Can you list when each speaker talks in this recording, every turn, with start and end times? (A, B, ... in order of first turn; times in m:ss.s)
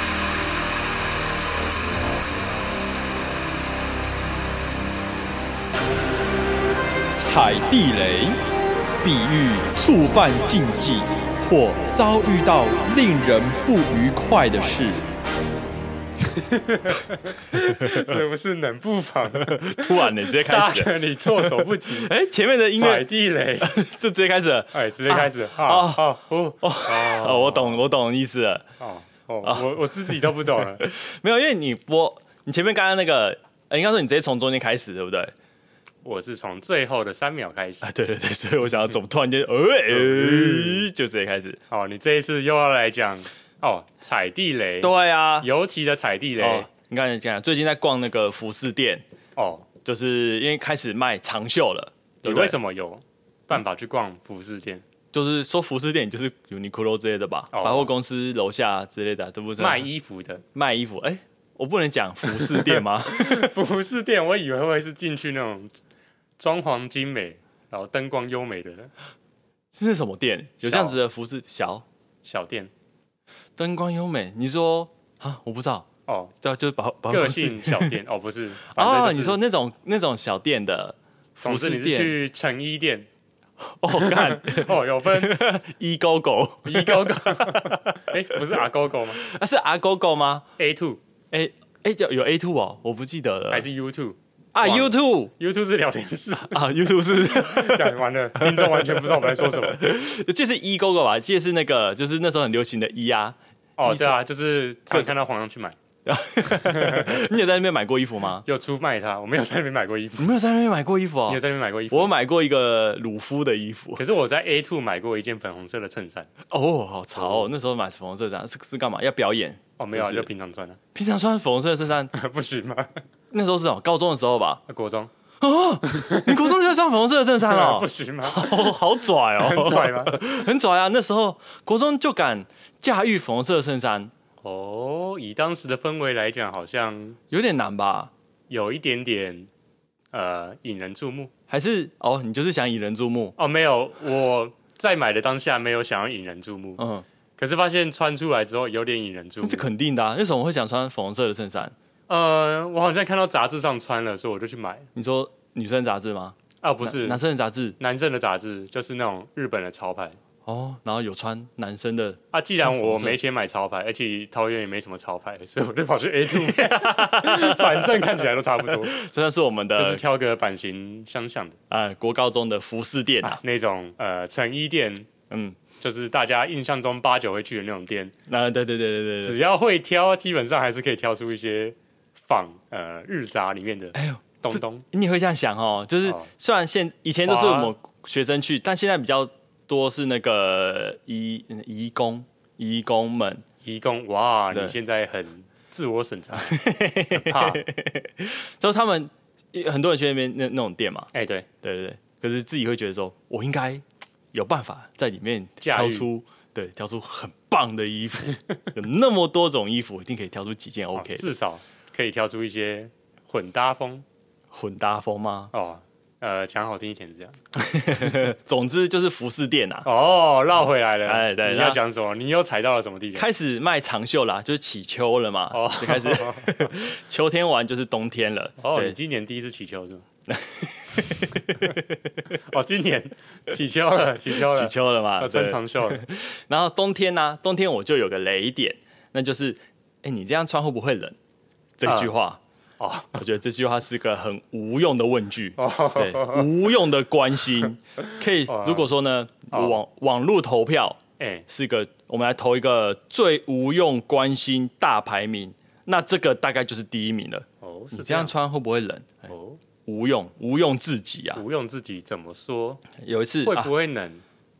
0:07.1-0:08.4 A
0:09.0-0:15.1 A
0:16.2-0:22.1 B
0:17.8-0:18.2 C
0:19.4-0:23.1 C
0:22.7-0:23.7 B
0:23.6-0:28.6 C
0:24.7-0:27.8 B
0:28.8-0:30.8 B
0:29.4-0:35.3 C
0:36.0-0:37.9 B
0:37.8-0:41.6 C
0:39.9-0:40.9 B
0:41.7-0:46.7 B
0:44.8-0:45.5 C
0:46.4-0:49.0 C
0:49.4-0:49.7 B
0:49.8-0:52.6 C
0:52.2-0:54.8 B
0:55.1-0:59.8 C
0:57.5-0:57.9 B
0:59.6-1:00.4 B
1:00.5-1:03.5 C
1:02.3-1:05.7 B
1:06.4-1:08.9 B
1:09.7-1:11.8 C
1:10.6-1:11.0 B
1:12.2-1:12.7 B
1:13.6-1:15.9 C
1:16.1-1:16.3 B
1:16.4-1:18.0 C
1:17.1-1:19.4 B
1:18.7-1:22.2 C
1:21.4-1:23.0 B
1:23.6-1:28.6 C
1:23.9-1:25.3 B
1:26.6-1:29.2 B
1:29.2-1:30.4 C
1:30.6-1:31.0 B
1:31.3-1:33.7 C
1:33.5-1:36.7 B
1:34.5-1:35.3 C
1:36.5-1:44.2 C
1:37.3-1:39.8 B
1:43.8-1:45.8 B
1:46.0-1:48.4 C
1:46.5-1:47.2 B
1:48.4-1:50.3 B
1:50.2-1:54.0 C
1:51.3-1:52.1 B
1:54.0-1:56.3 B
1:56.5-2:00.3 C
1:57.2-1:57.5 B
1:59.8-2:00.8 B
2:00.9-2:02.1 C
2:02.1-2:03.0 B
2:03.3-2:04.6 C
2:04.7-2:05.1 B
2:05.4-2:14.1 C
2:05.9-2:06.3 B
2:07.4-2:08.8 B
2:09.4-2:10.2 B
2:14.4-2:17.2 B
2:17.3-2:18.1 C
2:18.5-2:19.5 B
2:20.1-2:21.3 B
2:21.5-2:23.3 C
2:23.4-2:26.8 B
2:26.8-2:27.0 C
2:27.4-2:29.7 B
2:29.4-2:31.7 C
2:32.1-2:34.9 B
2:34.9-2:37.8 C
2:36.6-2:37.2 B
2:37.8-2:40.2 B
2:40.4-2:43.2 C
2:42.3-2:49.0 B
2:46.3-2:50.0 C
2:49.8-2:51.6 B
2:51.7-2:53.4 C
2:53.2-2:55.0 B
2:55.3-2:55.6 C
2:55.8-2:58.1 B
2:58.3-2:59.4 C
2:59.2-3:04.8 B
3:03.9-3:13.4 C
3:07.2-3:07.7 B
3:13.6-3:17.6 B
3:14.5-3:14.8 C
3:16.3-3:21.1 C
3:21.1-3:21.4 B
3:21.6-3:31.3 C
3:25.6-3:26.1 B
3:30.9-3:34.0 B
3:34.5-3:35.5 C
3:35.5-3:37.4 B
3:37.6-3:39.9 C
3:39.8-3:43.3 B
3:41.0-3:41.8 C
3:43.1-3:49.0 C
3:45.5-3:46.7 B
3:48.6-3:50.0 B
3:50.3-3:51.8 C
3:52.5-3:56.0 B
3:54.4-4:01.2 C
4:01.8-4:02.4 C
4:01.8-4:02.1 B
4:02.8-4:03.2 B
4:03.1-4:19.3 C
4:05.6-4:06.5 B
4:08.5-4:08.9 B
4:09.5-4:09.8 B
4:11.2-4:11.4 B
4:17.6-4:18.3 B
4:19.3-4:19.6 B
4:19.8-4:21.4 C
4:21.3-4:22.8 B
4:23.0-4:23.7 C
4:23.4-4:24.2 B